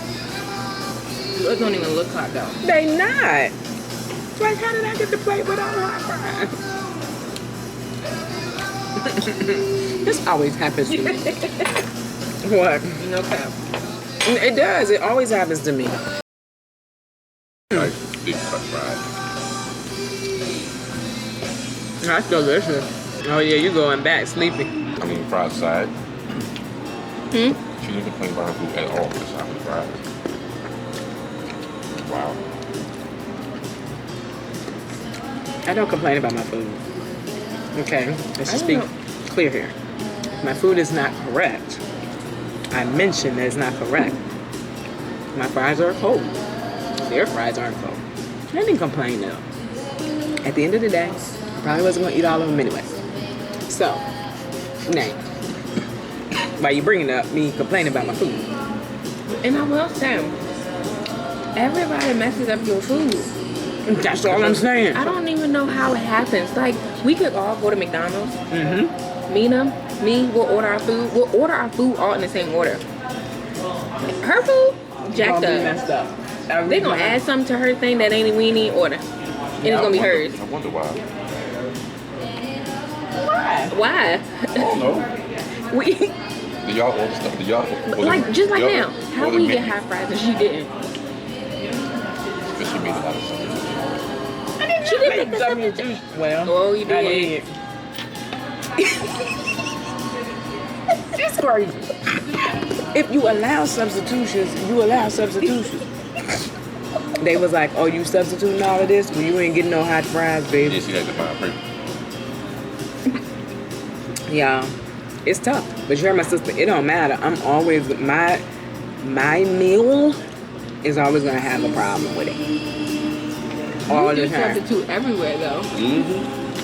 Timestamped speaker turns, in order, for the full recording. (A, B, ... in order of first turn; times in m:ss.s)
0:01.3-0:02.6 A
0:02.6-0:03.5 B
0:04.4-0:06.6 B
0:09.0-0:11.4 B
0:10.9-0:11.7 A
0:12.4-0:13.0 B
0:13.0-0:13.6 A
0:14.2-0:16.0 B
0:17.7-0:19.0 C
0:22.0-0:24.7 B
0:25.0-0:25.9 C
0:27.3-0:27.6 A
0:27.8-0:30.0 C
0:32.0-0:32.4 C
0:35.7-0:36.8 B
0:37.8-0:39.8 B
0:38.5-0:38.9 A
0:40.4-0:41.8 B
0:42.7-0:44.2 B
0:45.3-0:46.4 B
0:47.0-0:49.4 B
0:50.4-0:53.0 B
0:53.7-0:54.0 B
0:54.9-0:55.2 B
0:56.6-0:58.5 B
0:59.4-1:00.4 A
1:01.6-1:03.3 A
1:03.9-1:05.1 B
1:04.3-1:08.4 A
1:08.5-1:08.9 B
1:09.3-1:12.8 A
1:14.1-1:15.8 A
1:15.1-1:17.2 B
1:16.7-1:19.0 A
1:19.6-1:20.4 A
1:19.6-1:19.9 B
1:19.6-1:21.1 C
1:23.2-1:23.7 B
1:23.7-1:24.8 A
1:24.6-1:25.1 C
1:25.7-1:26.2 A
1:26.6-1:29.7 C
1:27.9-1:30.7 A
1:32.5-1:33.9 C
1:34.6-1:37.5 B
1:34.8-1:35.9 A
1:36.4-1:37.4 A
1:41.1-1:41.9 B
1:42.9-1:45.8 B
1:47.2-1:50.8 B
1:50.6-1:51.6 C
1:54.3-1:54.7 B
1:55.2-1:58.4 B
1:59.0-2:00.2 B
2:00.8-2:02.4 B
2:03.9-2:04.6 B
2:03.9-2:05.7 A
2:05.7-2:06.3 C